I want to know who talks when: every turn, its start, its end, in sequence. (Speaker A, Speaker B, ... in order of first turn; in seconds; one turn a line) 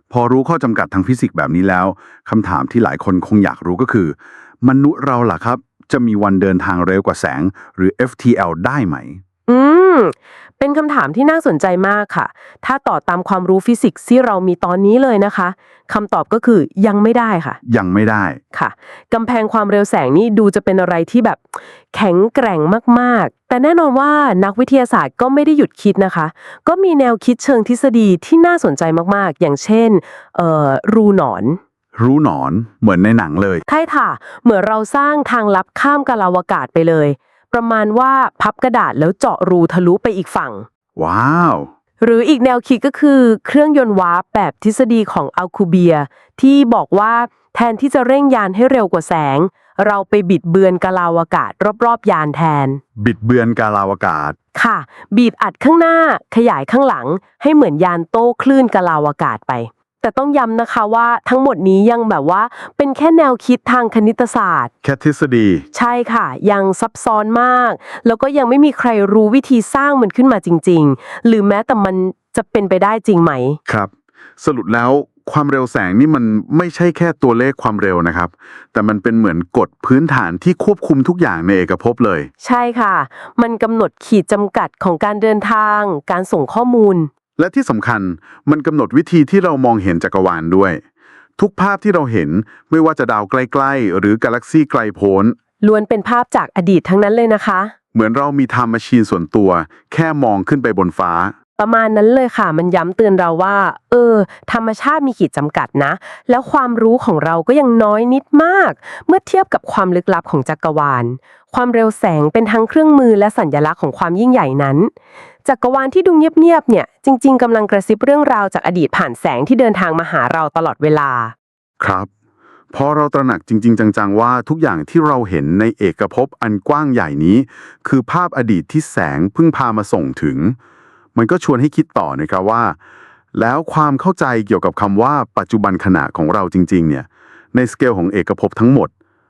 Speaker A: 0.1-9.2
Speaker B: 9.5-17.6
Speaker A: 17.6-18.4
Speaker B: 18.5-31.6
Speaker A: 32.0-33.6
Speaker B: 33.7-40.7
Speaker A: 41.0-41.7
Speaker B: 42.0-52.8
Speaker A: 53.0-54.4
Speaker B: 54.5-64.7
Speaker A: 64.8-65.7
Speaker B: 65.7-73.6
Speaker A: 73.7-82.3
Speaker B: 82.4-87.1
Speaker A: 87.4-90.8
Speaker A: 91.4-95.4
Speaker B: 95.6-97.7
Speaker A: 97.9-101.3
Speaker B: 101.6-114.9
Speaker B: 115.5-121.3
Speaker A: 121.8-122.1
Speaker A: 122.7-130.6
Speaker A: 131.2-132.8
Speaker A: 133.3-138.9